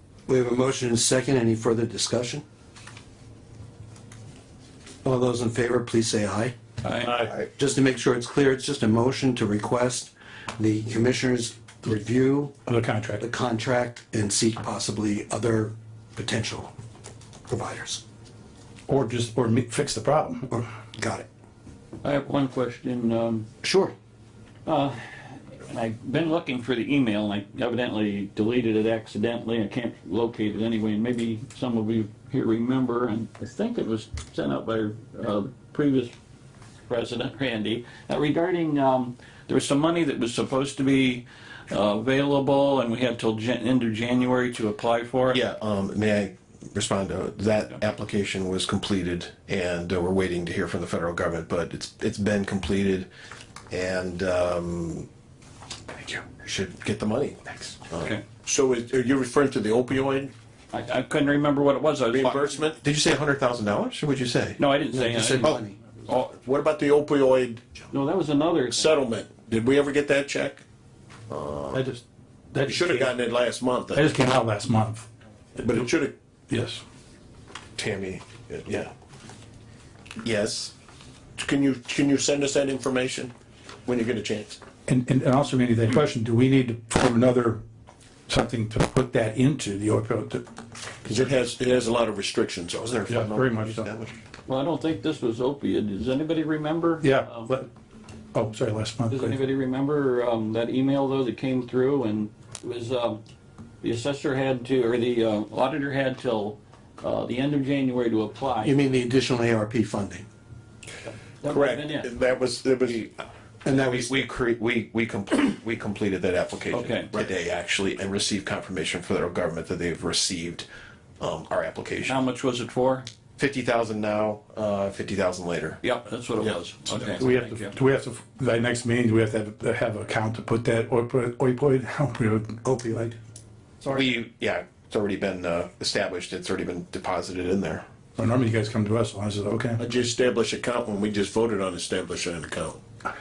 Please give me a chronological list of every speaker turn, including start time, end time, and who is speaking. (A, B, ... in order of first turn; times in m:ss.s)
0:00.3-0:02.4 A
0:05.0-0:06.5 A
0:06.8-0:07.1 B
0:07.0-0:07.3 C
0:07.5-0:12.5 A
0:12.6-0:13.2 D
0:13.2-0:16.7 A
0:17.5-0:18.0 A
0:18.9-0:20.6 D
0:21.0-0:21.2 A
0:22.0-0:23.5 B
0:23.6-0:23.9 A
0:24.6-0:25.0 B
0:25.6-0:36.1 B
0:36.9-0:45.4 B
0:45.3-0:53.1 E
0:53.7-0:55.1 E
0:56.0-0:58.1 E
0:58.0-0:58.2 B
0:58.4-1:00.3 C
1:00.7-1:02.4 B
1:02.1-1:04.6 E
1:04.6-1:05.6 B
1:04.9-1:05.7 A
1:06.3-1:07.6 C
1:07.9-1:09.0 B
1:08.7-1:10.6 C
1:11.3-1:11.7 E
1:11.7-1:12.0 D
1:12.5-1:13.1 D
1:12.7-1:14.0 C
1:13.9-1:15.1 D
1:15.6-1:16.1 C
1:16.5-1:16.8 D
1:17.8-1:18.9 E
1:20.2-1:20.7 E
1:21.4-1:23.3 C
1:23.8-1:24.6 C
1:24.9-1:27.6 D
1:28.3-1:30.4 D
1:31.0-1:33.2 C
1:32.9-1:34.1 E
1:33.1-1:33.9 D
1:34.4-1:37.5 B
1:37.0-1:37.7 D
1:38.3-1:39.4 D
1:39.1-1:43.2 B
1:43.8-1:48.7 B
1:48.6-1:50.2 A
1:51.4-1:52.0 B
1:51.5-1:53.0 C
1:52.0-1:53.1 E
1:53.6-1:54.1 A
1:53.7-2:00.6 E
1:56.7-1:57.1 B
2:01.2-2:02.1 E
2:02.0-2:03.1 B
2:03.4-2:05.8 E
2:05.8-2:07.7 B
2:07.2-2:13.1 D
2:13.9-2:17.8 E
2:18.2-2:19.8 D
2:19.8-2:22.8 C